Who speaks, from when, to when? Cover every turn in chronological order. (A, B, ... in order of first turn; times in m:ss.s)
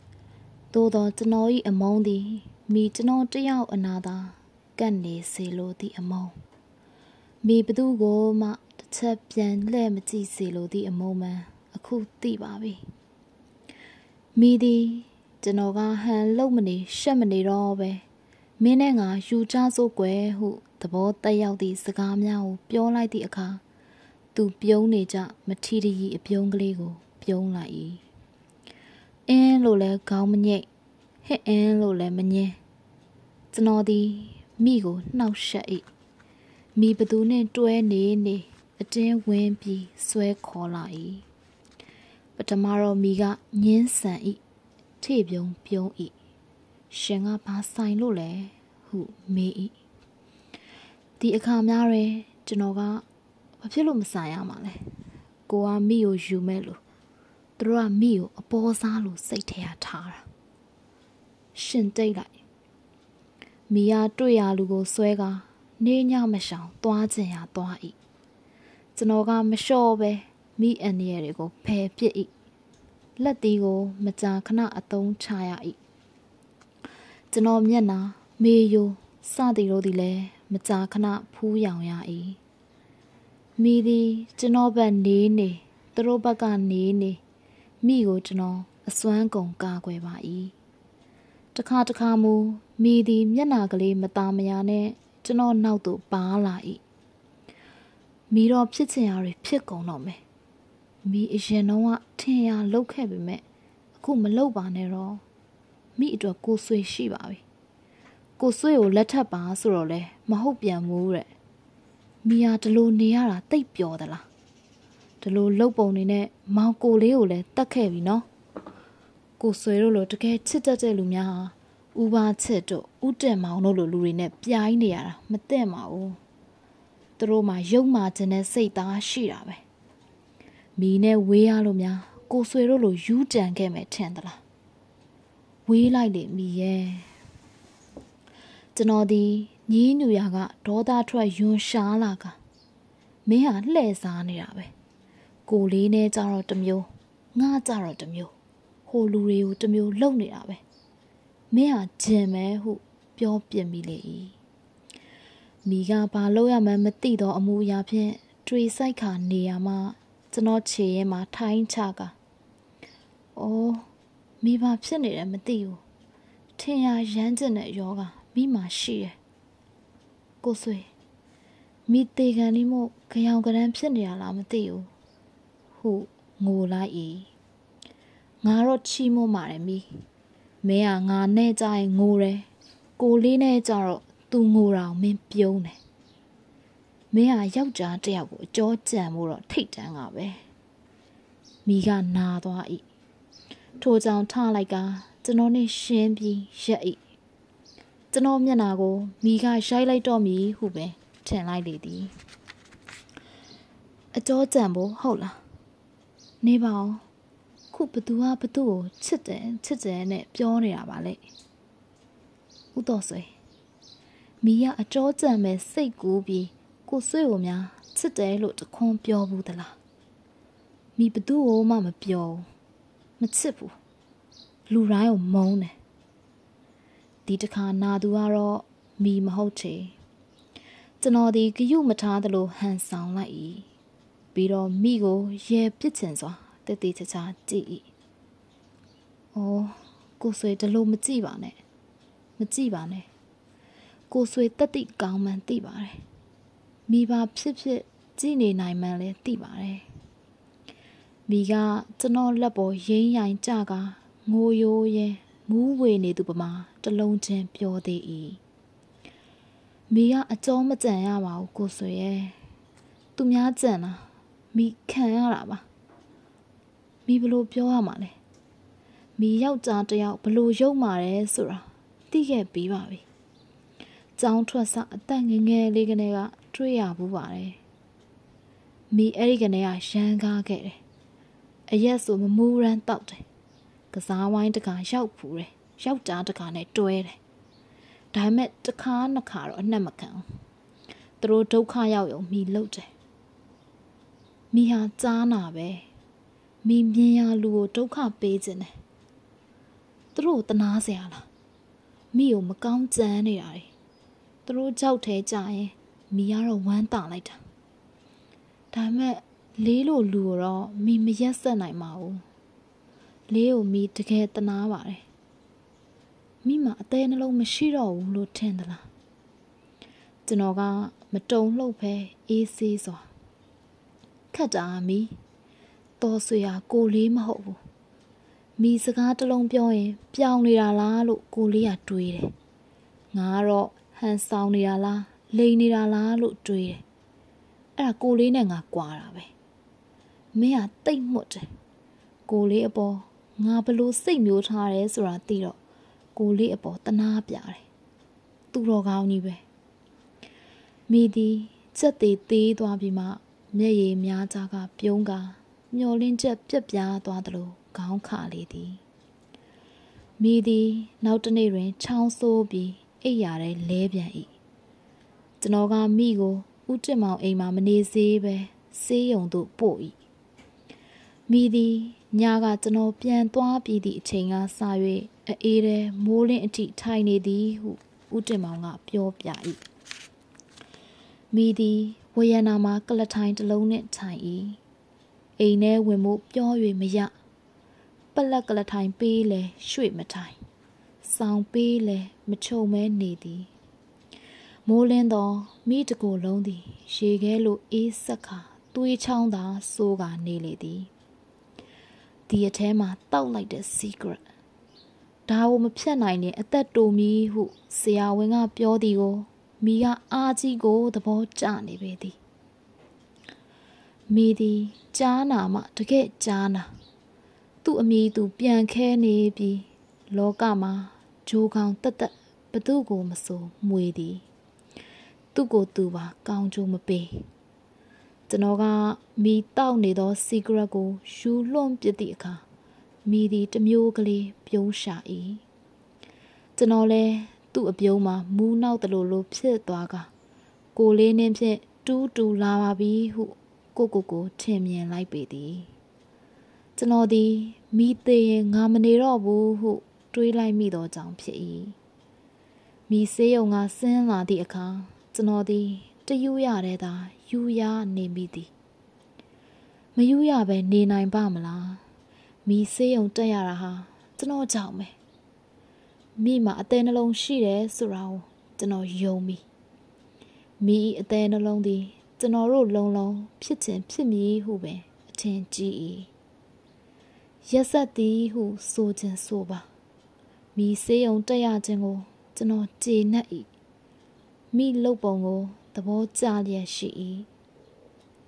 0:00.7-0:06.3 A
0:07.4-0:12.8 A
0:14.3-0:18.0 A
0:18.6-0:23.6 A
0:24.3-0:28.0 A
0:29.3-0:30.7 A
0:31.2-0:32.6 A
0:33.5-0:35.8 A
0:36.7-0:41.2 A
0:42.4-0:44.4 A
0:45.0-0:46.1 A
0:46.9-0:49.7 A
0:51.2-0:53.0 A
0:53.6-0:54.9 A
0:55.5-0:56.8 A
0:57.6-1:00.2 A
1:01.5-1:02.3 A
1:03.7-1:08.0 A
1:08.9-1:12.3 A
1:13.2-1:15.8 A
1:17.3-1:22.4 A
1:23.6-1:27.2 A
1:27.8-1:30.5 A
1:31.5-1:36.8 A
1:38.3-1:40.2 A
1:41.0-1:43.4 A
1:44.0-1:45.2 A
1:46.0-1:47.4 A
1:48.4-1:51.3 A
1:52.2-1:54.2 A
1:55.2-1:58.2 A
1:59.4-2:06.2 A
2:07.2-2:09.6 A
2:10.8-2:14.4 A
2:15.7-2:17.1 A
2:18.7-2:22.4 A
2:23.2-2:24.7 A
2:25.5-2:28.3 A
2:28.9-2:30.6 A
2:31.5-2:34.4 A
2:35.6-2:42.1 A
2:43.3-2:43.9 A
2:44.4-2:45.8 A
2:46.6-2:49.2 A
2:50.4-2:50.9 A
2:51.9-2:54.9 A
2:55.8-2:57.3 A
2:58.4-2:59.9 A
3:00.6-3:02.5 A
3:03.0-3:05.8 A
3:07.1-3:10.4 A
3:11.6-3:12.8 A
3:13.8-3:17.0 A
3:18.1-3:22.1 A
3:24.1-3:25.4 A
3:26.4-3:27.0 A
3:27.7-3:31.2 A
3:32.7-3:33.3 A
3:34.4-3:39.8 A
3:41.0-3:42.4 A
3:43.2-3:43.7 A
3:44.7-3:45.7 A
3:47.2-3:50.0 A
3:51.0-3:53.7 A
3:54.3-3:57.9 A
3:59.3-4:01.6 A
4:02.4-4:03.1 A
4:04.1-4:06.0 A
4:06.9-4:09.8 A
4:11.3-4:18.4 A
4:19.9-4:22.4 A
4:23.2-4:25.6 A
4:27.0-4:28.2 A
4:29.2-4:33.0 A
4:34.2-4:37.6 A
4:38.9-4:40.8 A
4:41.7-4:43.2 A
4:43.9-4:47.2 A
4:48.1-4:50.2 A
4:51.2-4:52.9 A
4:54.5-4:55.8 A
4:56.6-4:58.8 A
5:00.1-5:01.3 A
5:02.1-5:03.7 A
5:04.4-5:07.4 A
5:08.7-5:12.2 A
5:13.3-5:15.0 A
5:16.4-5:18.8 A
5:20.2-5:23.1 A
5:24.3-5:25.1 A
5:26.0-5:27.6 A
5:28.6-5:32.3 A
5:33.1-5:36.8 A
5:37.8-5:39.3 A
5:40.3-5:41.4 A
5:42.3-5:45.6 A
5:46.1-5:47.6 A
5:48.5-5:49.4 A
5:50.9-5:58.8 A
6:00.2-6:04.3 A
6:05.4-6:10.0 A
6:11.3-6:19.6 A
6:21.3-6:24.6 A
6:25.4-6:27.1 A
6:28.1-6:30.4 A
6:31.0-6:33.5 A
6:34.6-6:40.9 A
6:42.3-6:44.2 A
6:45.3-6:52.2 A
6:54.1-6:56.7 A
6:57.6-7:04.2 A
7:05.3-7:07.2 A
7:08.3-7:12.4 A
7:13.0-7:15.4 A
7:16.6-7:20.1 A
7:20.7-7:25.7 A
7:26.8-7:31.8 A
7:32.9-7:38.5 A
7:39.9-7:41.8 A
7:42.4-7:44.9 A
7:46.2-7:49.4 A
7:50.6-7:56.1 A
7:57.4-7:59.7 A
8:00.5-8:03.5 A
8:04.5-8:07.3 A